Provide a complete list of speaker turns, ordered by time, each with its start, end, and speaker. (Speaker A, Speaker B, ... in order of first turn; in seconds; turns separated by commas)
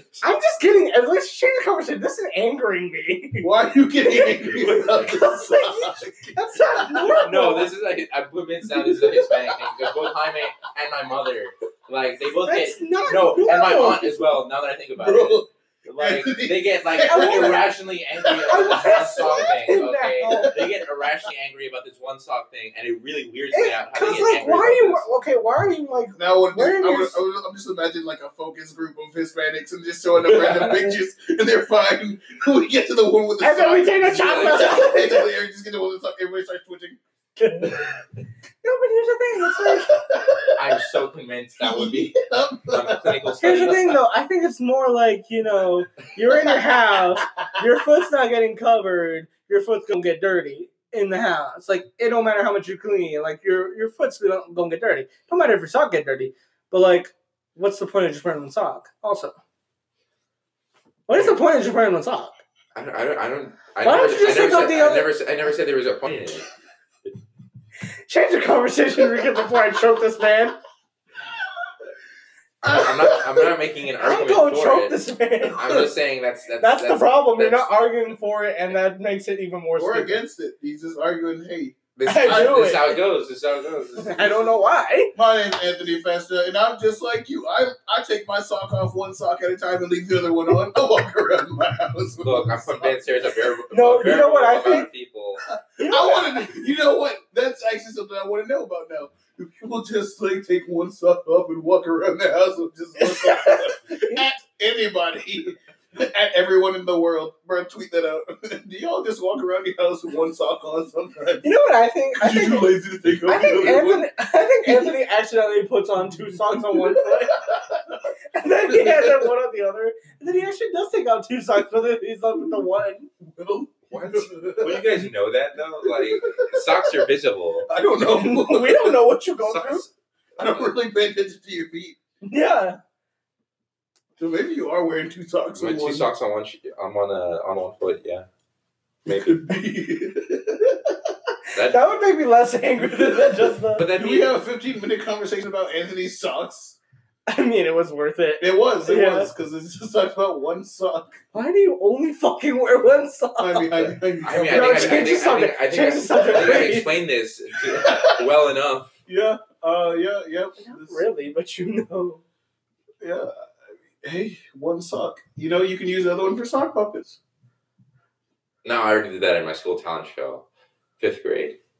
Speaker A: 0.2-3.5, Speaker B: 3.4-7.2, Speaker A: 4.0-7.7, Speaker C: 4.6-5.0, Speaker C: 7.2-25.0, Speaker B: 8.6-9.9, Speaker A: 12.4-14.1, Speaker B: 15.0-19.5, Speaker A: 17.0-17.7, Speaker A: 18.4-20.6, Speaker B: 20.3-20.8, Speaker A: 23.5-27.2, Speaker B: 26.1-37.0, Speaker C: 30.3-30.7, Speaker A: 33.4-35.3, Speaker C: 34.1-34.8, Speaker A: 37.4-37.8, Speaker A: 38.6-40.0, Speaker B: 39.6-40.9, Speaker C: 40.5-44.0, Speaker B: 41.6-43.2, Speaker A: 43.4-59.3, Speaker A: 61.1-62.4, Speaker C: 61.1-61.4, Speaker C: 62.7-66.5, Speaker A: 63.8-65.1, Speaker A: 68.1-70.5, Speaker B: 72.6-73.5, Speaker C: 72.6-75.0, Speaker A: 74.0-75.6, Speaker C: 75.5-77.7, Speaker B: 75.6-75.8, Speaker A: 76.6-80.2, Speaker B: 79.8-81.8, Speaker C: 82.0-84.6, Speaker A: 82.0-83.0, Speaker A: 84.0-85.1, Speaker B: 85.1-93.0, Speaker C: 92.2-95.5, Speaker A: 93.7-94.9, Speaker A: 95.8-96.5, Speaker B: 95.8-111.5, Speaker A: 103.0-104.2, Speaker A: 111.4-117.4, Speaker B: 112.2-114.1, Speaker B: 114.6-114.9, Speaker B: 116.5-118.0, Speaker A: 118.3-123.1, Speaker B: 118.7-119.3, Speaker B: 123.2-125.0, Speaker C: 123.9-127.7, Speaker B: 125.8-127.1, Speaker B: 127.7-129.0, Speaker A: 128.1-129.8, Speaker C: 129.4-129.9, Speaker B: 130.4-132.0, Speaker A: 132.2-132.8, Speaker B: 134.2-136.1, Speaker C: 135.6-138.2, Speaker C: 139.0-139.4, Speaker B: 139.1-141.1, Speaker C: 141.5-141.9, Speaker A: 141.6-143.9, Speaker B: 142.8-146.8, Speaker C: 143.7-144.4, Speaker A: 147.3-149.3, Speaker B: 148.4-151.2, Speaker A: 151.3-153.7, Speaker B: 153.4-155.2, Speaker C: 153.8-158.9, Speaker A: 154.3-156.9, Speaker B: 157.8-158.2, Speaker B: 159.1-161.0, Speaker A: 160.6-162.2, Speaker B: 163.0-163.3, Speaker B: 164.0-167.2, Speaker C: 168.6-170.5, Speaker C: 171.0-171.6